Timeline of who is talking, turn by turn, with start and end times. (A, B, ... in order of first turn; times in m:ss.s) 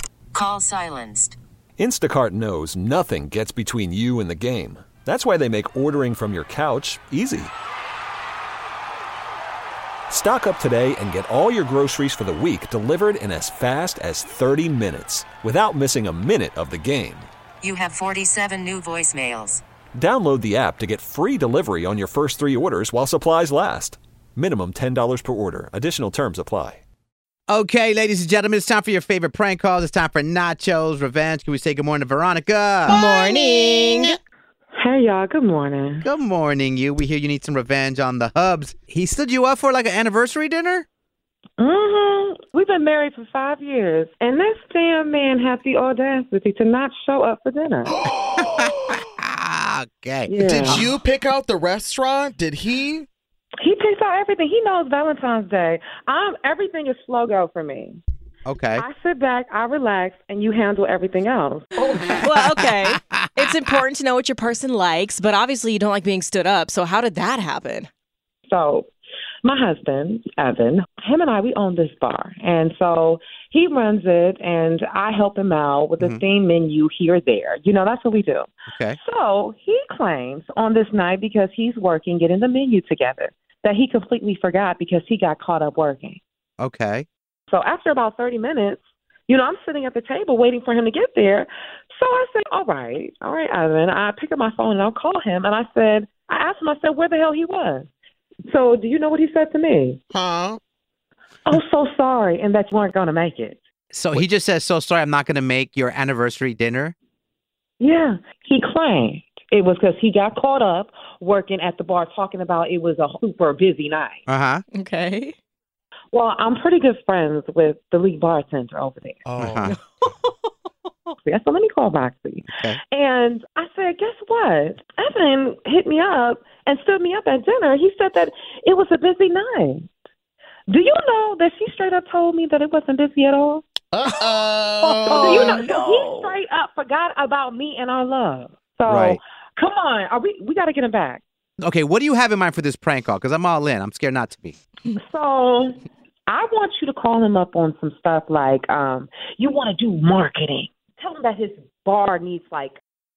0:00.3-0:01.4 A
0:01.8-0:07.5 B
0:10.1-0:17.3 B
0:17.6-0:19.6 A
0:20.0-0:26.8 B
0:27.5-0:33.0 C
0:33.0-0:33.7 D
0:33.0-0:34.1 E
0:34.8-0:36.0 F
0:36.0-0:40.8 C
0:41.6-0:48.0 F
0:48.0-0:49.0 D
0:48.5-0:50.9 C
0:50.3-0:50.9 F
0:50.4-0:53.1 D
0:53.6-0:58.0 F
0:58.5-0:58.8 C
0:58.8-1:01.7 F
1:01.8-1:02.3 D
1:02.2-1:07.9 E
1:02.4-1:03.8 C
1:08.5-1:08.9 F
1:09.4-1:26.2 F
1:18.7-1:19.0 C
1:26.6-1:27.1 C
1:27.5-1:37.9 F
1:38.5-1:40.0 F
1:40.1-1:40.6 D
1:41.5-1:43.6 F
1:43.9-1:46.9 C
1:47.8-1:54.2 F
1:54.3-1:54.6 C
1:54.7-1:55.3 E
1:56.1-1:59.2 F
1:59.3-1:59.8 D
1:59.4-1:59.8 C
2:01.2-2:09.9 F
2:02.5-2:02.8 C
2:10.7-2:13.7 F
2:13.9-2:15.8 D
2:14.9-2:21.2 F
2:18.9-2:19.2 C
2:21.6-2:24.6 C
2:25.0-2:32.8 F